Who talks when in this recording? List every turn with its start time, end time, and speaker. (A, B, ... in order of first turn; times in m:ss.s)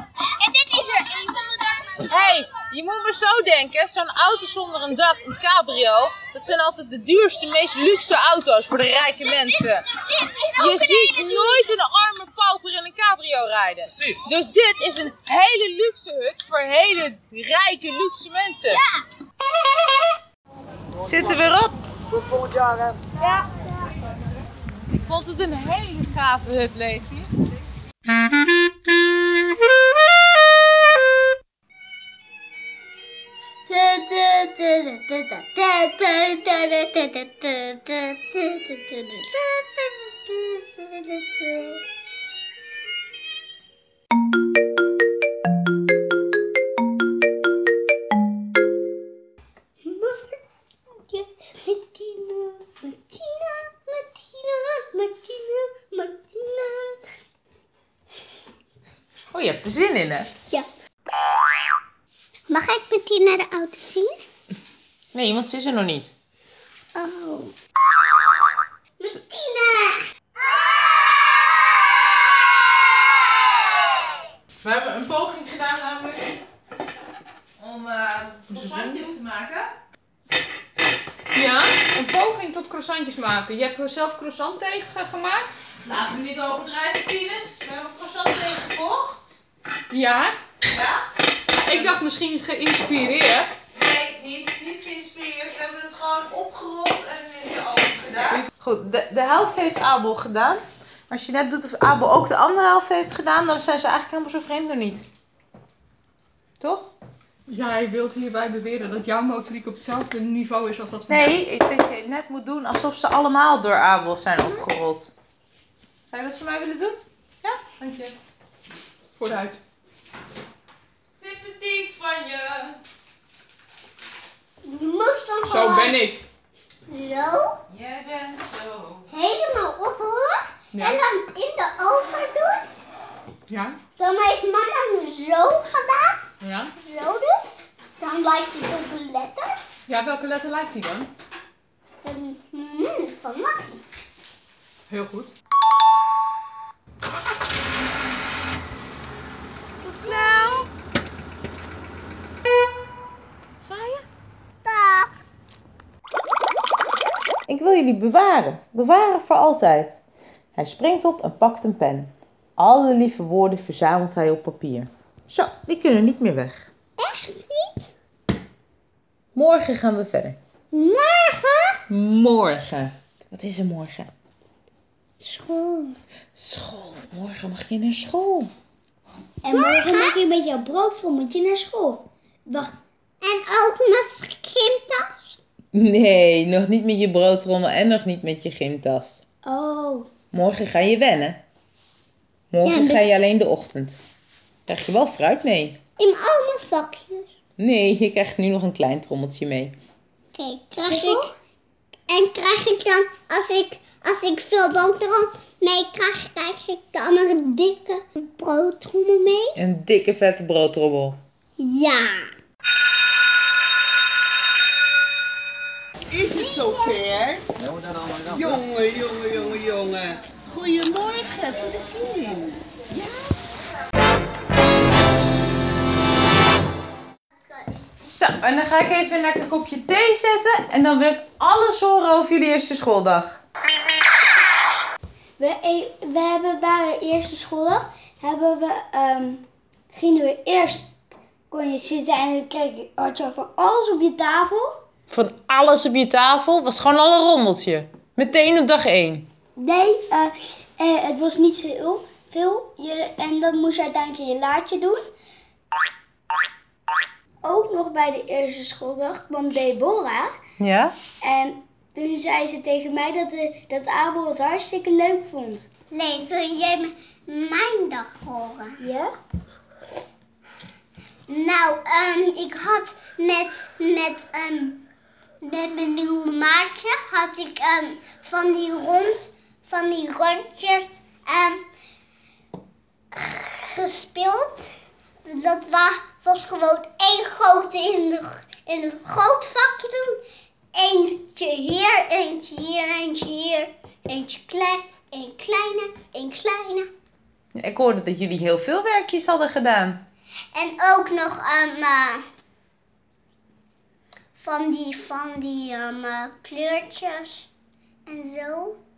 0:00.4-0:01.7 A
0:02.0-0:09.8 B
0:10.3-0:11.0 A
0:10.5-0:18.8 B
0:21.1-0:21.7 B
0:25.0-0:27.3 B
0:33.7-0:41.8 A
0:49.8-0:50.4 A
0:51.1-0:57.0 A
0:59.3-1:00.3 B
1:02.5-1:04.2 A
1:05.1-1:06.1 B
1:06.9-1:07.5 A
1:09.0-1:10.0 A
1:14.6-1:16.3 B
1:17.6-1:19.7 B
1:18.5-1:19.2 C
1:21.3-1:25.5 C
1:25.8-1:29.4 B
1:29.9-1:30.4 C
1:30.6-1:31.0 B
1:31.5-1:33.6 C
1:31.7-1:32.0 B
1:33.7-1:45.0 B
1:46.6-1:46.9 B
1:47.5-1:51.4 C
1:51.1-1:55.1 B
1:56.1-1:58.2 B
1:59.2-1:59.6 C
2:01.2-2:02.8 B
2:04.6-2:06.0 A
2:05.5-2:06.2 C
2:06.9-2:07.6 A
2:07.7-2:09.1 B
2:09.1-2:12.7 A
2:10.8-2:11.0 C
2:13.5-2:13.8 C
2:14.0-2:16.2 A
2:16.4-2:16.7 C
2:16.8-2:19.6 A
2:19.9-2:21.1 C
2:22.0-2:23.8 A
2:24.9-2:25.3 C
2:29.8-2:30.7 B
2:33.6-2:34.0 B
2:34.6-2:35.1 A
2:37.5-2:40.0 B
2:40.5-2:46.7 B
2:47.0-2:47.8 A
2:49.3-2:50.4 B
2:50.7-2:51.8 A
2:51.9-2:54.1 B
2:55.2-2:56.0 A
2:56.4-2:58.5 B
2:59.4-3:02.7 D
2:59.5-3:00.2 A
3:03.2-3:05.3 A
3:05.7-3:09.2 B
3:09.4-3:10.1 D
3:10.3-3:11.4 B
3:12.5-3:14.0 B
3:12.6-3:13.0 A
3:14.7-3:15.8 B
3:16.0-3:17.3 A
3:17.6-3:19.8 B
3:20.3-3:21.3 A
3:20.9-3:21.3 D
3:22.1-3:29.6 A
3:29.6-3:31.2 B
3:31.6-3:32.3 A
3:36.1-3:37.5 A
3:38.3-3:41.8 E
3:47.5-3:47.9 A
3:48.0-3:53.4 B
3:55.4-4:00.9 D
4:01.5-4:04.8 D
4:05.1-4:09.3 B
4:09.6-4:15.1 D
4:17.4-4:20.3 D
4:20.6-4:20.9 B
4:21.2-4:25.6 D
4:25.9-4:28.8 A
4:28.8-4:29.1 D
4:31.3-4:34.8 A
4:35.4-4:41.6 A
4:43.1-4:44.7 A
4:45.2-4:50.2 A
4:50.7-4:56.9 A
4:57.5-5:00.0 B
5:00.5-5:02.2 A
5:04.4-5:07.5 A
5:08.1-5:08.8 A